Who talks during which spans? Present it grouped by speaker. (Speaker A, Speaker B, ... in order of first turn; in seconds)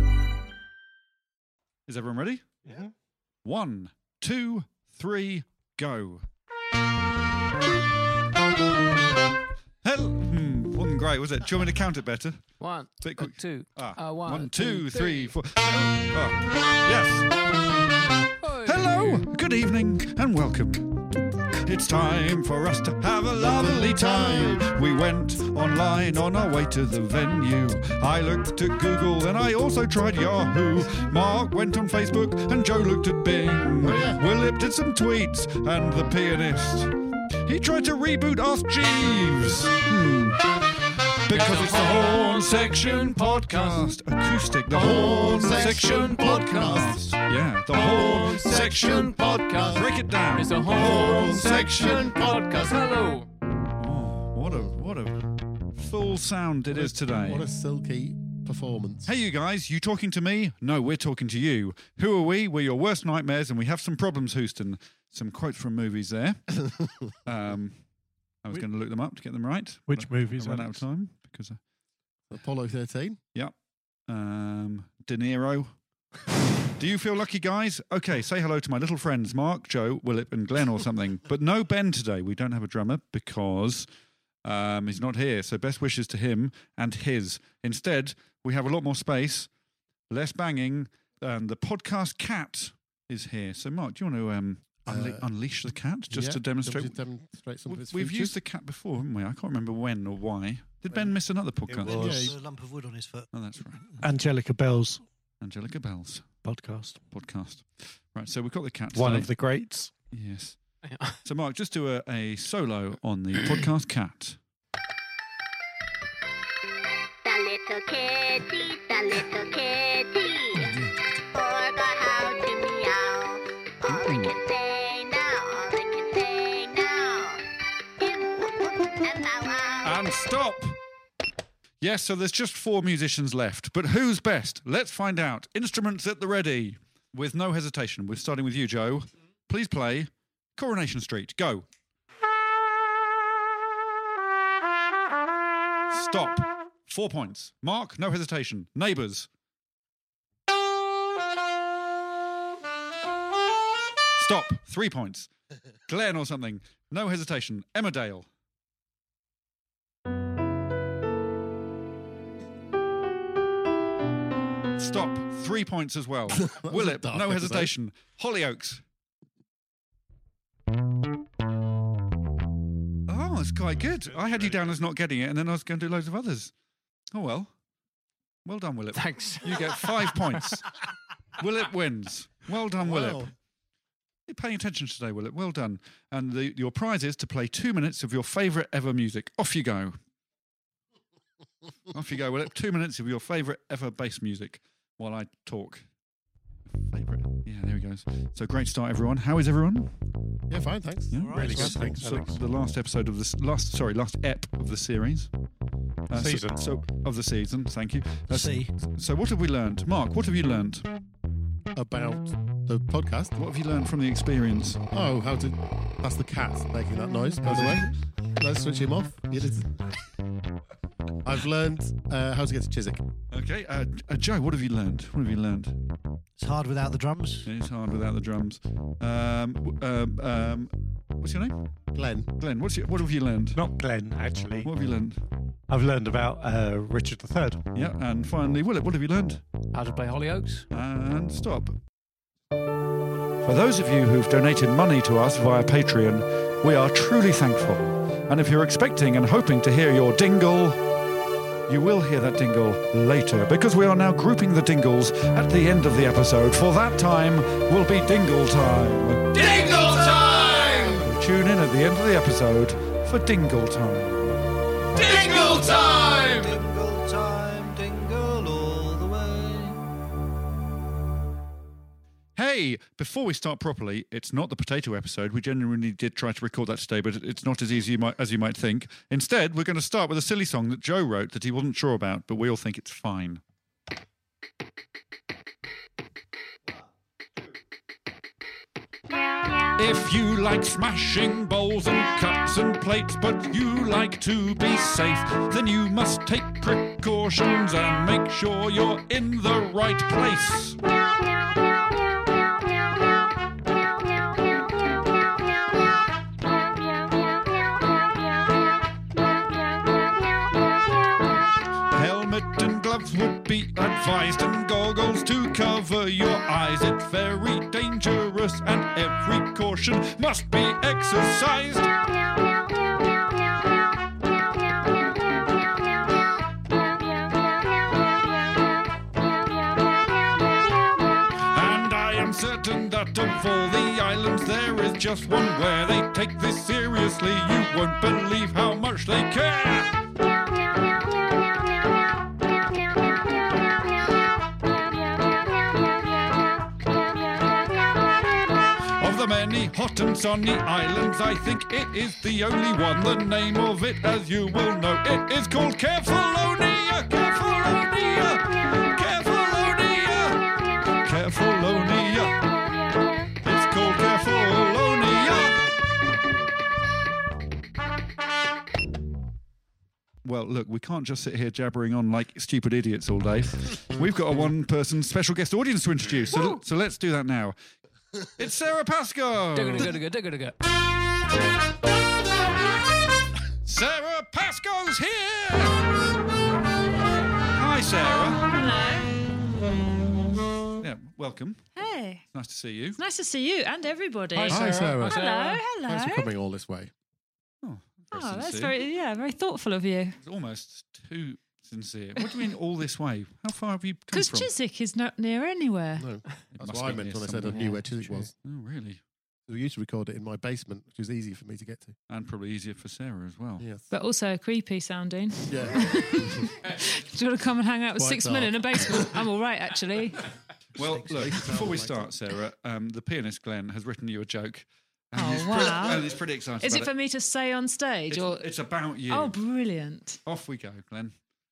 Speaker A: 1.9-2.4, 3.4-6.2, 9.8-12.4, 13.0-17.3, 18.6-21.1, 21.6-36.9, 37.4-40.5, 41.2-52.1, 53.8-57.5, 59.0-66.4, 67.2-67.8, 68.4-71.6, 74.1-75.7, 76.8-83.8, 84.4-89.5, 90.1-97.0, 97.7-102.3, 103.3-103.8, 105.4-106.4, 107.1-109.3, 110.1-110.6, 111.2-114.4, 123.8-124.3, 129.8-130.8, 131.8-141.7, 145.9-149.3, 154.2-155.3, 155.9-158.3, 164.8-168.8, 173.1-176.5, 177.1-177.5, 178.4-180.7, 181.4-183.3, 184.3-189.9, 191.9-195.8, 196.9-199.9, 201.1-205.3, 206.1-210.9, 213.3-214.8, 217.4-217.9, 223.3-225.8, 227.4-231.6, 232.4-233.6, 234.6-235.2, 237.7-239.4, 240.7-241.8, 243.4-250.8, 251.7-260.5, 261.0-264.4, 265.0-266.2, 272.4-283.4, 289.8-300.8, 311.9-321.9, 331.4-339.9, 349.0-360.5, 361.0-362.4, 363.4-365.6, 370.2-377.5, 378.4-380.0, 383.6-385.8, 387.5-388.5, 390.8-391.7, 392.3-393.0, 397.6-398.7, 400.2-404.5, 406.5-409.0, 412.1-413.6, 420.8-426.9, 428.1-429.4, 430.2-431.1
Speaker B: 12.6-15.3, 18.4-19.3, 41.3-43.9, 45.5-46.8, 47.7-53.3, 110.8-111.2, 178.9-180.6, 239.7-240.6, 379.5-380.6, 394.3-395.7
Speaker C: 23.3-24.7, 33.8-34.2, 44.7-47.1, 48.0-49.8, 50.9-52.8, 56.7-59.1, 72.3-73.2, 94.9-95.2, 96.1-98.3, 101.8-102.3, 166.3-167.7, 182.8-183.3, 200.5-202.0, 211.7-213.3, 214.9-219.7, 221.2-223.0, 231.9-232.3, 259.4-261.0, 265.3-266.3, 394.5-395.2, 395.9-396.9, 406.0-408.3, 409.5-411.9, 413.6-413.9, 415.5-416.4, 418.0-419.2, 421.3-421.6
Speaker D: 69.9-70.8, 101.7-102.3, 104.0-105.0, 106.4-107.0, 108.9-109.9, 201.2-202.4, 206.1-206.6, 233.5-234.7, 235.7-237.6
Speaker E: 101.8-103.3, 201.2-201.6, 208.3-208.7, 226.4-227.5, 265.0-269.8, 420.8-422.1
Speaker F: 117.2-120.5, 121.3-127.4, 128.0-128.3, 129.0-129.9
Speaker G: 376.3-376.6, 388.4-389.1, 391.8-392.2, 393.0-396.3, 398.1-400.1, 404.1-406.1, 413.9-420.2, 425.1-428.4, 429.1-430.2